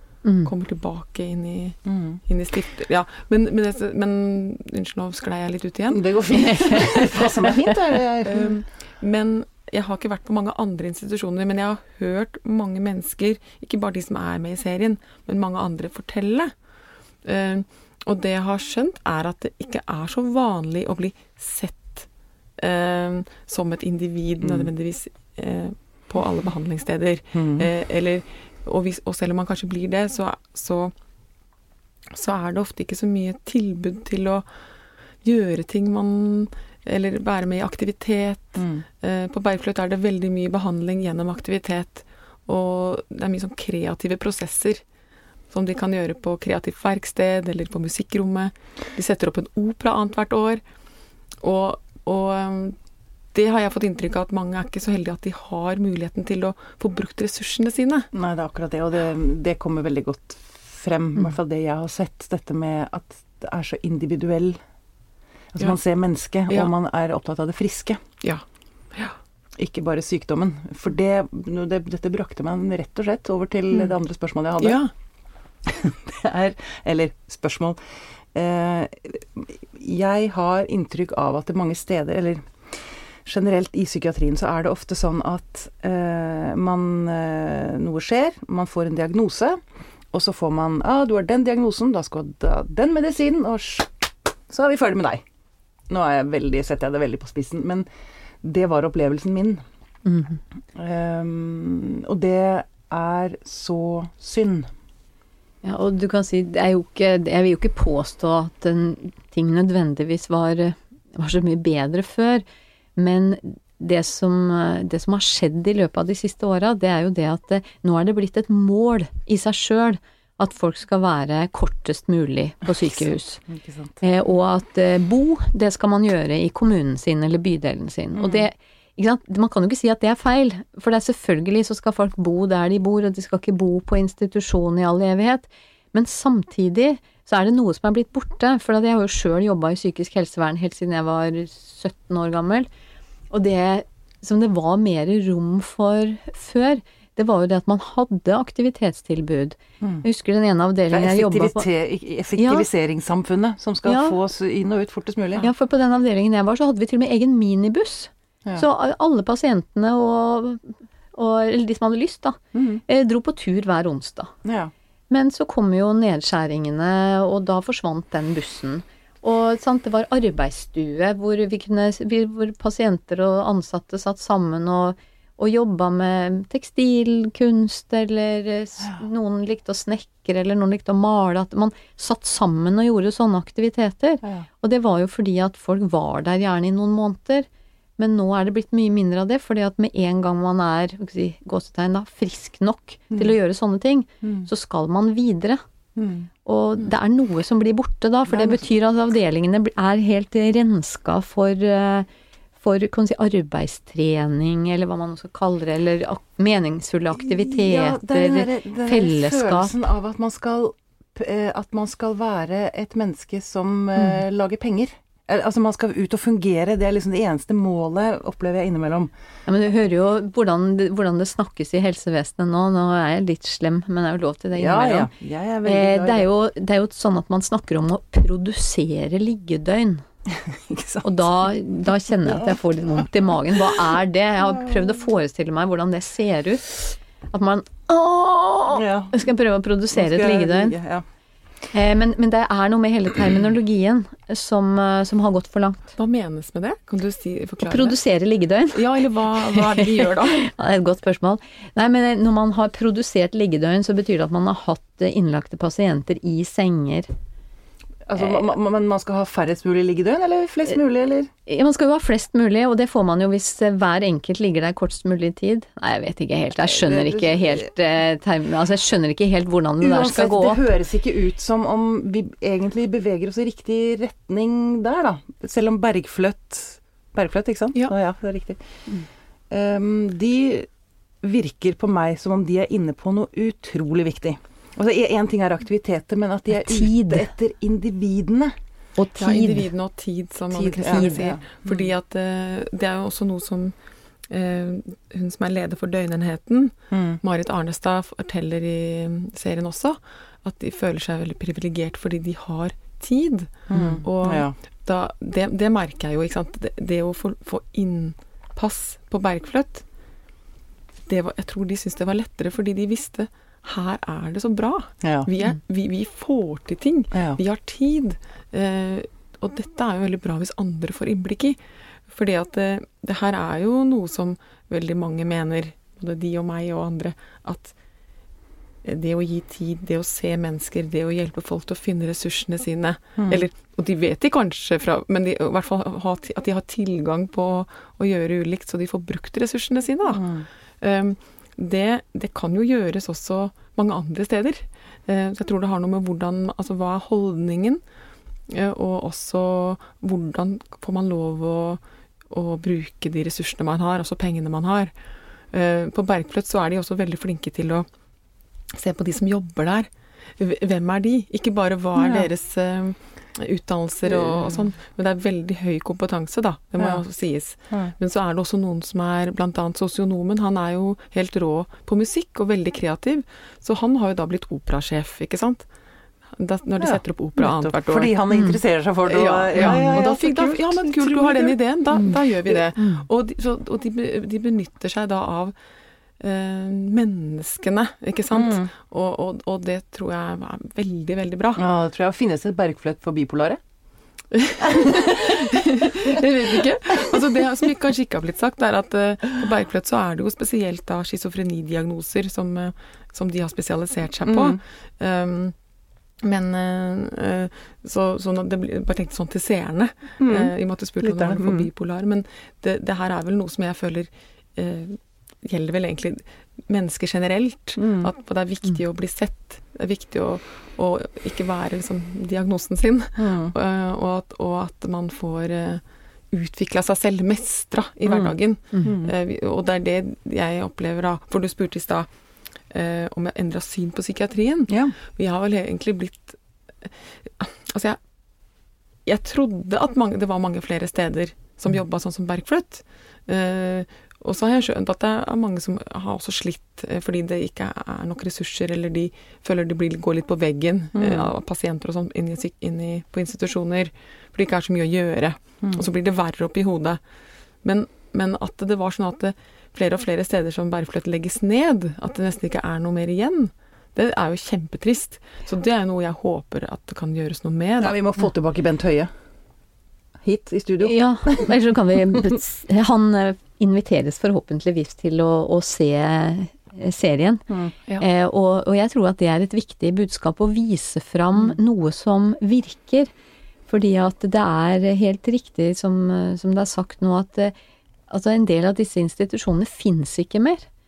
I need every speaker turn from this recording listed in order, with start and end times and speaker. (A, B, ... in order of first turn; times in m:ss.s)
0:00.2-0:00.5 A
0:00.4-0:07.2 B
0:01.8-0:02.2 C
0:05.9-0:08.6 C
0:08.2-0:16.5 B
0:17.2-0:30.9 B
0:24.4-0:24.7 C
0:27.3-0:27.7 C
0:32.1-0:34.4 B
0:35.2-0:44.8 B
0:38.6-0:38.8 C
0:45.5-0:50.6 B
0:51.4-0:52.8 B
0:53.3-0:58.1 B
0:58.1-1:04.6 C
1:05.5-1:08.0 C
1:09.6-1:14.8 C
1:14.6-1:14.9 B
1:15.6-1:17.8 C
1:18.3-1:29.6 C
1:30.1-1:35.2 C
1:35.9-1:37.8 C
1:38.4-1:39.6 C
1:40.0-1:40.4 A
1:40.7-1:44.7 C
1:45.6-1:52.4 A
1:53.0-2:03.4 A
2:03.0-2:04.0 C
2:04.0-2:22.7 A
2:08.1-2:08.5 C
2:23.3-2:31.7 A
2:30.9-2:35.5 C
2:32.4-2:32.7 A
2:33.8-2:34.2 A
2:35.4-2:44.3 A
2:42.5-2:42.8 C
2:44.4-2:44.7 C
2:45.1-3:07.5 A
3:08.0-3:15.6 A
3:14.2-3:14.5 C
3:16.0-3:16.3 C
3:16.4-3:22.1 A
3:18.3-3:18.6 C
3:22.6-3:29.7 A
3:27.2-3:39.1 C
3:39.4-3:45.1 A
3:44.5-3:46.3 C
3:45.6-3:50.0 A
3:50.3-3:51.5 C
3:51.0-4:00.7 A
3:52.1-3:52.6 C
3:58.7-3:59.1 C
3:59.9-4:01.0 C
4:01.7-4:05.9 A
4:06.0-4:08.0 B
4:07.6-4:17.1 A
4:08.7-4:10.5 B
4:18.1-4:21.3 C
4:21.4-4:30.7 A
4:26.7-4:27.6 C
4:29.8-4:38.6 C
4:39.5-4:40.7 C
4:41.2-4:48.5 C
4:46.6-4:47.3 A
4:49.0-4:49.7 A
4:49.2-4:53.7 B
4:50.5-4:51.9 C
4:50.8-4:51.3 A
4:54.3-5:09.8 B
4:56.9-4:57.2 C
5:03.7-5:04.5 C
5:11.1-5:21.6 B
5:15.0-5:15.3 C
5:17.1-5:17.4 C
5:22.1-5:27.7 B
5:28.8-5:47.8 B
5:33.2-5:33.5 C
5:40.1-5:40.5 C
5:48.5-5:54.9 B
5:55.5-5:57.8 B
5:58.7-6:15.6 B
6:01.9-6:02.3 C
6:04.0-6:04.7 C
6:16.4-6:18.2 B
6:16.8-6:22.6 C
6:18.3-6:18.6 A
6:19.0-6:25.5 B
6:19.6-6:19.9 A
6:22.8-6:23.0 A
6:26.2-6:31.6 B
6:28.3-6:28.7 C
6:31.6-6:33.6 C
6:34.3-6:45.5 B
6:34.6-6:36.2 C
6:44.2-6:44.6 C
6:46.2-7:12.1 B
6:50.2-6:51.7 C
6:57.8-6:58.1 C
7:03.2-7:03.5 C
7:08.8-7:09.1 C
7:12.7-7:18.0 B
7:14.7-7:14.9 C
7:19.0-7:37.0 B
7:30.9-7:31.3 C
7:37.6-7:48.0 B
7:47.8-7:49.1 C
7:50.2-7:51.5 C
7:50.8-7:57.4 A
7:57.5-7:57.7 C
7:58.0-8:03.1 A
8:03.7-8:07.5 A
8:08.1-8:10.6 A